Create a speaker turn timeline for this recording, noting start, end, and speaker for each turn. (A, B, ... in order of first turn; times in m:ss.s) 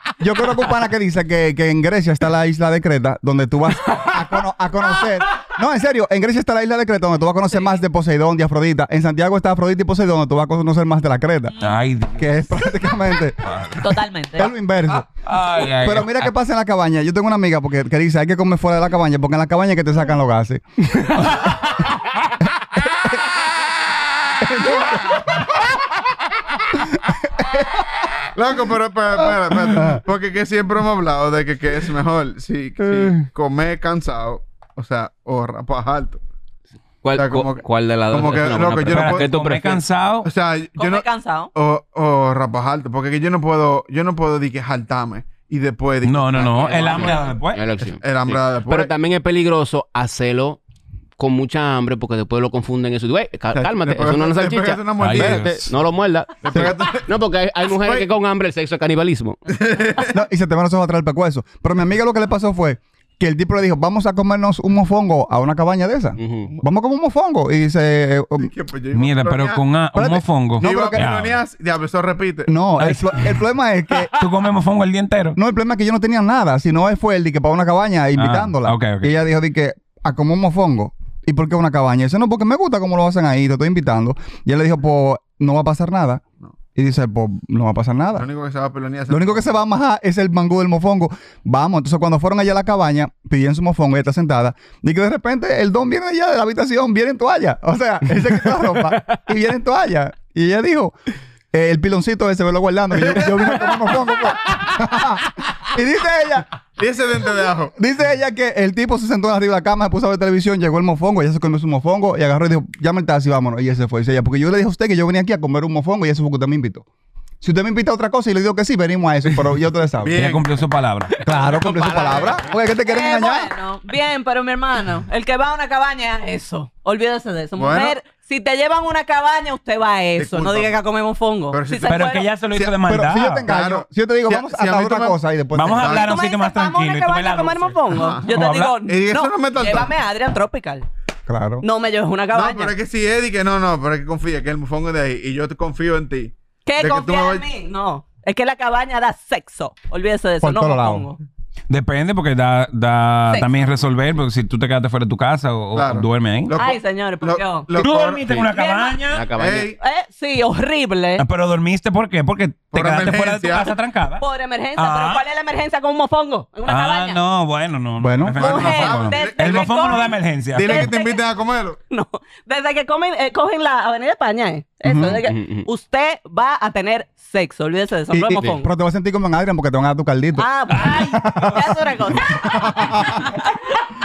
0:00.2-0:11.6 A
0:11.6-0:12.5 B
0:12.2-0:13.4 A
0:13.4-0:13.8 B
0:13.8-0:14.5 C
0:14.4-0:15.1 A
0:15.3-0:16.3 B
0:15.8-0:21.1 A
0:22.9-0:23.2 A
0:24.4-0:25.4 A
0:26.8-0:27.8 A
0:28.3-0:36.2 D
0:29.7-0:30.0 A
0:37.0-0:39.8 E
0:37.1-0:39.3 D
0:38.9-0:40.3 B
0:40.2-0:47.2 D
0:40.8-0:41.5 C
0:46.0-0:47.6 B
0:46.6-0:50.6 E
0:48.0-0:48.9 D
0:51.2-0:59.4 E
0:53.5-0:55.5 D
0:55.0-0:55.7 B
0:56.4-0:57.1 D
0:57.7-0:58.1 D
0:59.5-1:00.2 D
1:00.1-1:08.5 A
1:06.2-1:06.5 E
1:08.4-1:09.6 D
1:08.9-1:11.4 B
1:10.0-1:11.1 A
1:10.6-1:12.5 D
1:12.5-1:14.2 A
1:12.8-1:13.3 B
1:14.1-1:15.4 B
1:15.4-1:26.2 A
1:18.2-1:19.2 B
1:26.8-1:28.3 A
1:28.2-1:29.5 D
1:29.1-1:40.9 A
1:41.5-1:46.5 A
1:43.0-1:43.7 D
1:46.8-1:47.7 D
1:47.8-1:56.8 A
1:57.4-2:00.2 A
2:00.0-2:00.5 D
2:00.1-2:01.1 B
2:01.2-2:03.5 A
2:01.5-2:02.3 E
2:02.8-2:12.3 C
2:07.6-2:08.0 D
2:10.2-2:10.8 D
2:11.5-2:12.8 D
2:11.9-2:13.5 B
2:12.9-2:16.0 A
2:13.5-2:15.2 D
2:15.5-2:18.8 B
2:15.7-2:16.1 D
2:16.0-2:20.9 C
2:17.9-2:18.3 D
2:18.8-2:20.0 D
2:21.3-2:21.6 A
2:21.6-2:22.7 C
2:22.3-2:27.5 D
2:26.6-2:31.2 C
2:30.4-2:31.1 A
2:31.7-2:36.6 B
2:33.3-2:33.6 C
2:35.8-2:38.4 D
2:36.6-2:37.7 C
2:37.8-2:39.3 B
2:38.5-2:39.0 C
2:39.1-2:39.7 E
2:39.3-2:39.8 D
2:39.8-2:41.2 C
2:41.2-2:44.2 B
2:42.7-2:43.7 D
2:44.2-2:47.2 C
2:44.8-2:45.2 B
2:46.7-2:50.9 B
2:48.0-2:48.4 A
2:48.4-2:51.8 D
2:48.4-2:51.2 C
2:51.9-2:58.7 C
2:54.8-2:55.2 A
2:55.3-2:55.7 E
2:58.1-3:01.8 A
3:00.4-3:03.6 C
3:02.4-3:03.2 A